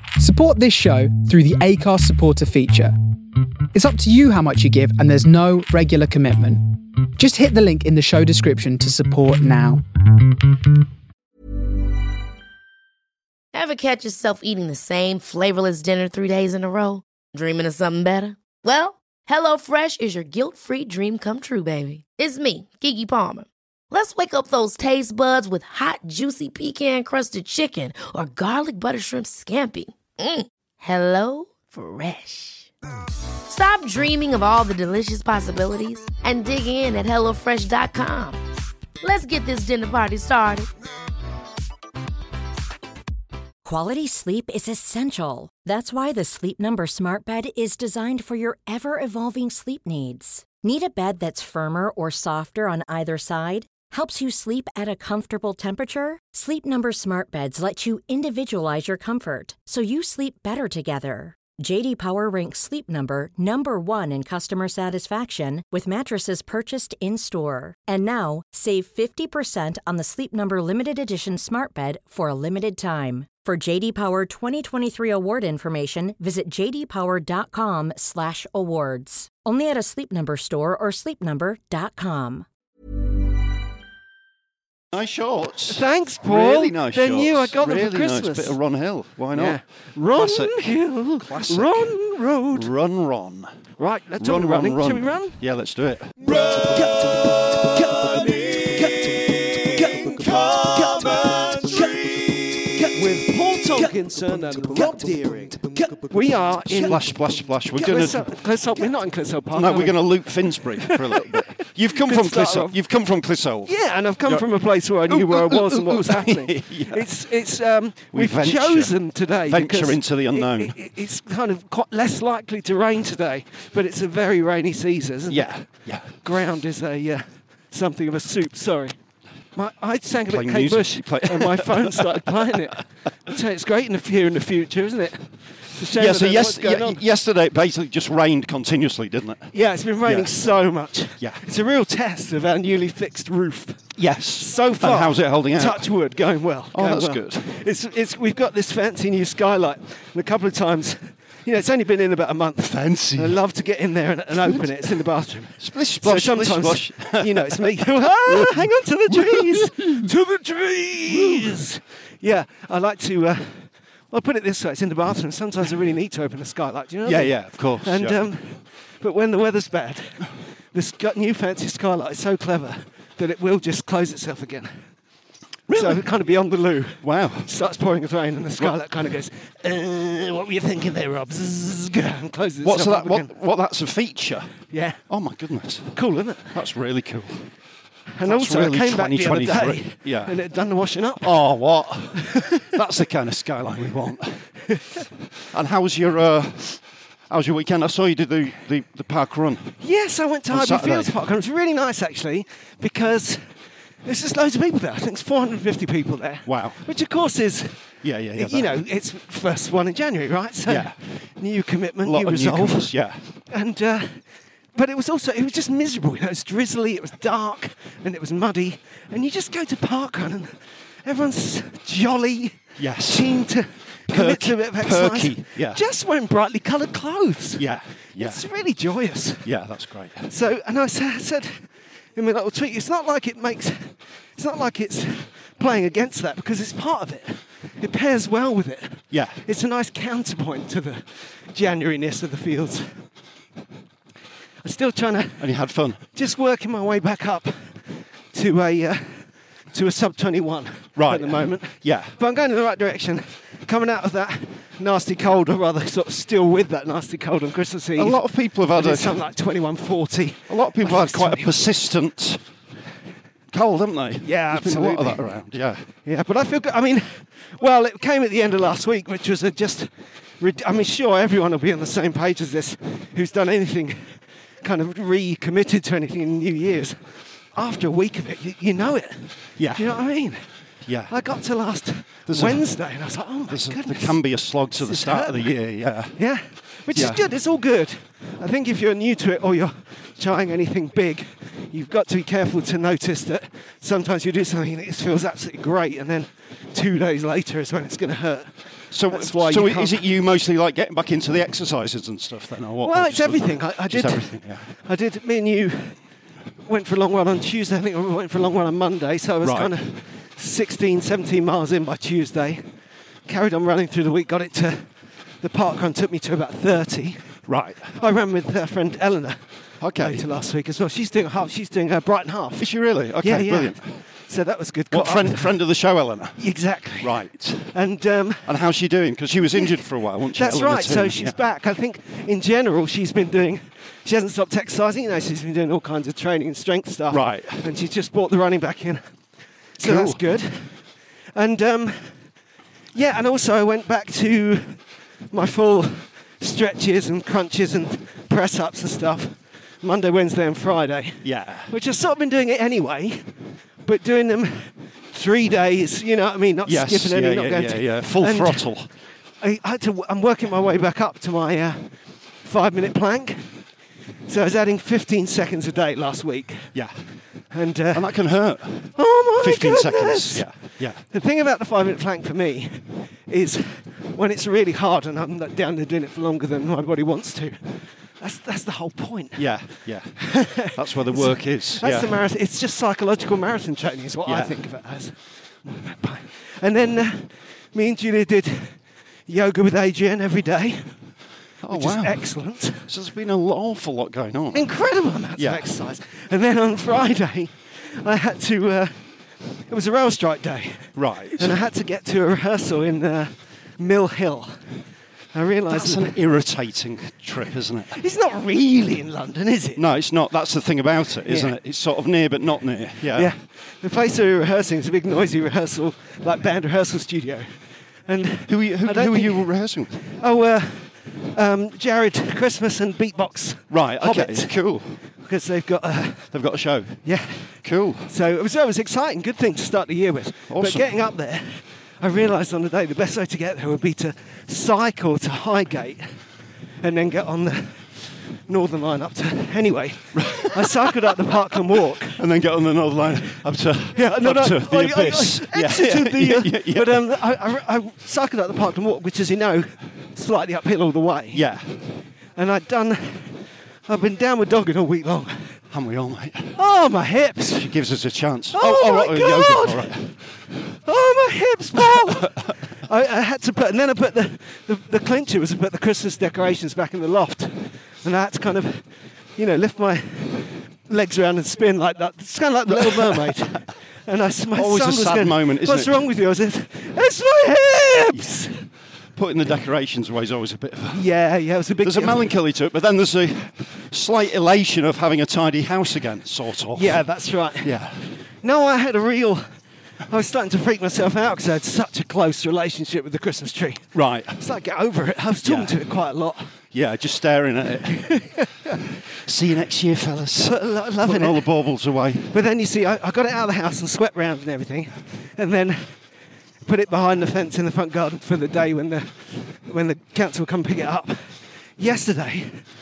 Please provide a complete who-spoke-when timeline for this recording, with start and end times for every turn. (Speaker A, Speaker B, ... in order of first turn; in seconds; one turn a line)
Speaker A: 0.2-2.9
Speaker A: 3.7-9.8
Speaker B: 13.5-32.7
Speaker B: 33.5-38.4
Speaker B: 39.0-40.7
Speaker C: 43.6-82.4
Speaker D: 84.9-91.9
Speaker E: 85.7-88.6
Speaker E: 89.3-92.7
Speaker D: 92.5-93.6
Speaker E: 93.8-95.4
Speaker D: 94.2-96.2
Speaker E: 96.3-107.0
Speaker D: 106.7-108.9
Speaker E: 107.7-111.3
Speaker D: 109.5-117.0
Speaker E: 111.9-112.8
Speaker E: 113.7-128.9
Speaker D: 118.1-120.8
Speaker D: 125.3-126.1
Speaker E: 129.6-137.0
Speaker D: 130.3-132.6
Speaker D: 135.9-140.3
Speaker E: 139.5-174.8
Speaker D: 144.0-145.9
Speaker D: 146.7-147.5
Speaker D: 152.6-153.4
Speaker D: 155.6-160.1
Speaker D: 161.1-161.5
Speaker D: 167.1-168.2
Speaker D: 175.7-176.1
Speaker E: 175.7-183.3
Speaker D: 177.0-177.5
Speaker D: 182.6-187.5
Speaker E: 184.7-185.0
Speaker E: 185.9-186.6
Speaker E: 188.2-191.4
Speaker D: 188.2-190.3
Speaker D: 191.2-194.4
Speaker E: 192.2-192.7
Speaker D: 195.5-199.8
Speaker E: 199.8-203.4
Speaker D: 200.5-201.2
Speaker E: 204.1-207.9
Speaker D: 206.5-206.8
Speaker D: 208.0-208.8
Speaker E: 208.4-212.9
Speaker D: 210.7-211.0
Speaker D: 212.0-213.2
Speaker E: 213.5-214.2
Speaker E: 214.8-227.7
Speaker D: 222.8-223.4
Speaker D: 224.1-225.8
Speaker D: 227.6-228.4
Speaker E: 228.2-229.5
Speaker D: 229.4-230.3
Speaker E: 230.3-242.9
Speaker D: 239.1-239.4
Speaker E: 244.6-245.4
Speaker D: 245.4-246.0
Speaker E: 246.1-247.8
Speaker E: 248.3-261.6
Speaker D: 251.0-252.1
Speaker D: 258.0-259.2
Speaker D: 260.5-262.4
Speaker D: 263.5-265.9
Speaker E: 264.2-265.3
Speaker E: 266.1-277.0
Speaker E: 277.5-280.4
Speaker D: 279.6-280.0
Speaker D: 280.9-281.1
Speaker E: 281.1-284.2
Speaker D: 282.3-282.7
Speaker D: 283.5-286.2
Speaker E: 284.8-285.5
Speaker E: 286.2-300.0
Speaker D: 286.9-287.2
Speaker D: 298.9-304.7
Speaker E: 302.8-306.0
Speaker E: 306.6-312.7
Speaker D: 309.4-309.7
Speaker E: 313.3-319.4
Speaker D: 317.5-318.0
Speaker D: 319.8-320.2
Speaker E: 320.0-322.7
Speaker D: 322.6-323.8
Speaker E: 323.2-323.8
Speaker E: 324.3-325.6
Speaker D: 324.9-326.4
Speaker E: 326.4-327.2
Speaker D: 327.0-327.8
Speaker E: 327.7-328.5
Speaker D: 328.5-331.4
Speaker E: 329.5-329.8
Speaker E: 330.3-339.0
Speaker D: 337.1-337.6
Speaker E: 339.8-340.8
Speaker D: 339.8-340.2
Speaker E: 341.4-342.2
Speaker E: 342.9-353.2
Speaker D: 351.2-351.7
Speaker E: 353.9-358.7
Speaker D: 356.6-358.9
Speaker E: 359.4-361.9
Speaker E: 362.4-363.5
Speaker E: 364.3-366.7
Speaker D: 366.7-367.0
Speaker E: 367.5-368.2
Speaker D: 367.9-371.0
Speaker E: 368.9-370.5
Speaker E: 371.0-379.5
Speaker D: 379.4-382.2
Speaker E: 380.2-390.9
Speaker D: 384.2-384.6
Speaker D: 391.6-392.3
Speaker E: 391.7-392.9
Speaker D: 392.9-394.7
Speaker E: 394.5-399.0
Speaker D: 395.4-395.7
Speaker E: 399.7-404.6
Speaker D: 401.0-401.6
Speaker E: 405.3-406.2
Speaker D: 405.7-408.0
Speaker E: 407.9-409.8
Speaker D: 409.8-413.3
Speaker E: 411.2-411.6
Speaker E: 413.1-417.5
Speaker E: 418.1-424.5
Speaker D: 418.5-420.0
Speaker D: 423.7-425.0
Speaker E: 425.2-426.3
Speaker D: 426.3-427.1
Speaker E: 427.0-436.1
Speaker D: 427.6-428.1
Speaker D: 430.5-430.9
Speaker E: 436.8-442.2
Speaker D: 440.2-440.9
Speaker D: 442.2-447.1
Speaker E: 443.9-451.4
Speaker D: 451.3-451.8
Speaker E: 452.4-455.6
Speaker D: 455.7-456.6
Speaker E: 456.6-457.7
Speaker D: 457.5-460.2
Speaker E: 458.5-460.0
Speaker E: 460.9-478.5
Speaker D: 461.9-462.4
Speaker D: 472.7-473.6
Speaker D: 474.6-476.0
Speaker D: 479.1-481.0
Speaker E: 480.9-482.2
Speaker D: 481.8-487.0
Speaker E: 486.7-487.8
Speaker D: 487.6-488.1
Speaker E: 488.4-489.5
Speaker E: 490.1-496.5
Speaker D: 493.9-494.4
Speaker D: 495.4-495.8
Speaker D: 496.7-498.4
Speaker E: 498.0-498.8
Speaker D: 499.2-502.3
Speaker E: 500.4-501.5
Speaker E: 502.3-506.0
Speaker E: 506.6-512.6